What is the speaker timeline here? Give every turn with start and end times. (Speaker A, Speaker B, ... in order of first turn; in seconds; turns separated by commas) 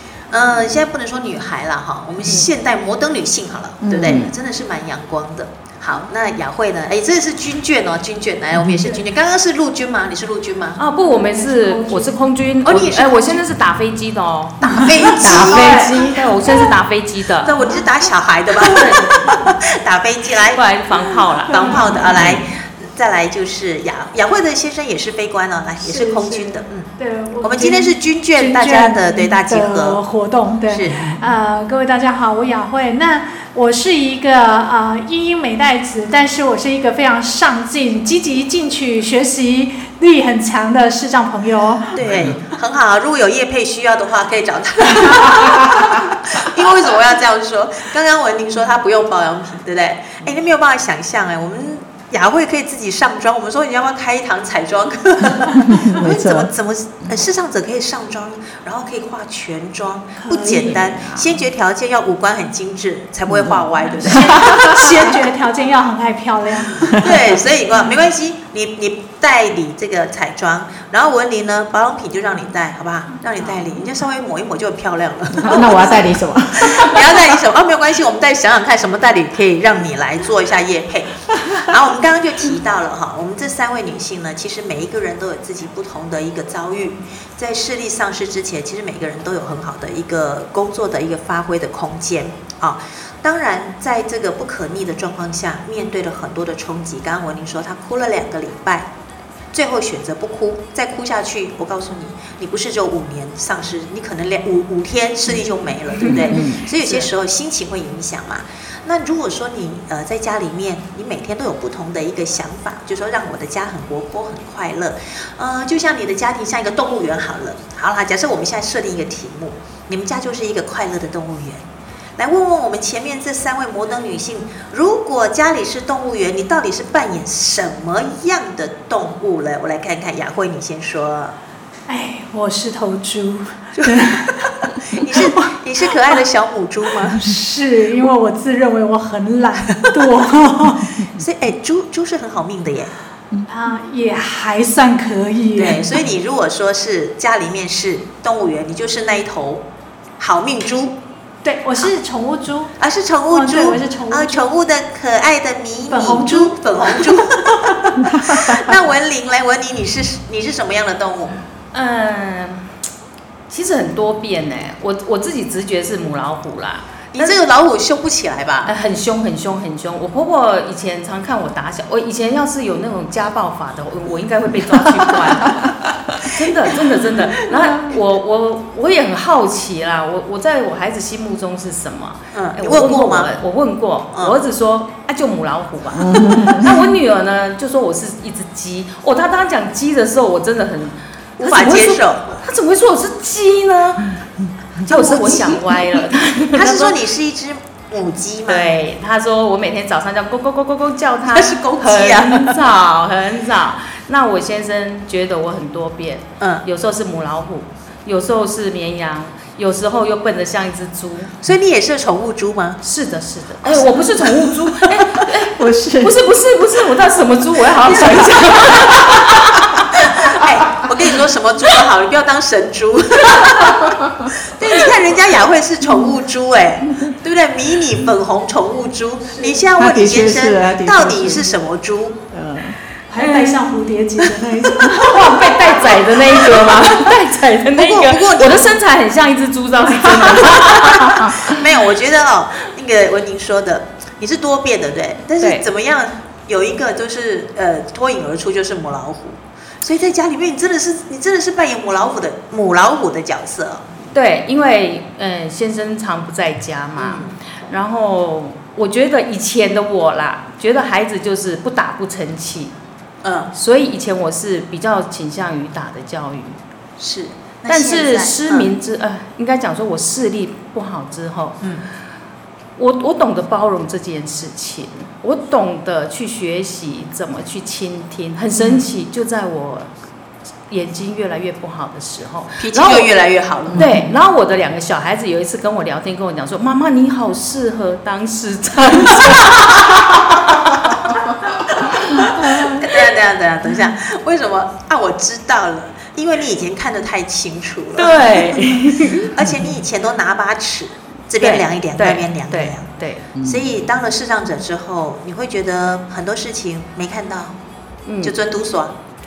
Speaker A: 0.3-10.8, Speaker B: 3.8-4.3, Speaker B: 8.5-8.9, Speaker C: 10.8-17.6, Speaker D: 11.0-12.2, Speaker A: 12.6-13.4, Speaker A: 14.6-16.1, Speaker B: 15.1-15.9, Speaker A: 17.4-20.6, Speaker C: 18.7-19.3, Speaker C: 20.5-21.9, Speaker A: 21.4-30.0, Speaker B: 22.0-22.5, Speaker D: 25.8-42.0, Speaker A: 30.7-31.2, Speaker A: 42.0-65.2, Speaker B: 55.5-56.5, Speaker D: 60.2-60.7, Speaker B: 60.5-61.3, Speaker B: 63.3-64.6, Speaker D: 64.2-67.0, Speaker A: 66.9-76.0, Speaker B: 75.4-77.3, Speaker A: 76.6-98.9, Speaker A: 99.5-131.4, Speaker C: 106.0-107.1, Speaker B: 106.1-106.7, Speaker D: 131.9-134.3, Speaker A: 133.8-134.3, Speaker A: 134.9-137.3, Speaker D: 135.1-135.5, Speaker D: 137.2-141.1, Speaker A: 141.1-142.9, Speaker D: 143.5-146.0, Speaker A: 145.6-149.7, Speaker A: 150.2-151.0, Speaker D: 151.4-152.7, Speaker A: 152.8-161.4, Speaker D: 153.3-154.4, Speaker D: 155.9-157.2, Speaker C: 161.7-162.7, Speaker C: 163.5-167.4, Speaker A: 167.1-168.7, Speaker C: 168.7-194.2, Speaker A: 182.3-183.3, Speaker B: 186.0-186.8, Speaker A: 191.4-192.4, Speaker C: 194.8-197.0, Speaker A: 194.9-195.9, Speaker A: 196.6-198.7, Speaker C: 198.5-211.3, Speaker A: 201.3-202.6, Speaker A: 211.4-212.8, Speaker C: 212.8-220.1, Speaker A: 213.7-214.7, Speaker B: 215.6-216.2, Speaker A: 217.8-218.7, Speaker A: 220.0-232.2, Speaker B: 229.7-231.6, Speaker B: 232.3-232.8, Speaker D: 233.1-235.7, Speaker C: 233.2-233.6, Speaker C: 234.9-241.4, Speaker A: 237.7-238.7, Speaker A: 240.2-253.8, Speaker C: 245.4-245.7, Speaker C: 254.1-262.8, Speaker A: 257.0-257.4, Speaker A: 263.2-263.5, Speaker C: 263.5-266.6, Speaker A: 267.0-268.7, Speaker C: 267.7-271.6, Speaker C: 272.8-279.9, Speaker A: 278.6-278.8, Speaker C: 280.7-283.1, Speaker A: 282.6-283.9, Speaker B: 283.7-284.1, Speaker C: 283.7-291.1, Speaker A: 291.8-302.9, Speaker C: 298.0-299.3, Speaker B: 299.4-299.7, Speaker C: 301.4-303.3, Speaker B: 303.4-303.7, Speaker A: 303.4-307.6, Speaker C: 308.1-308.3, Speaker A: 308.2-309.0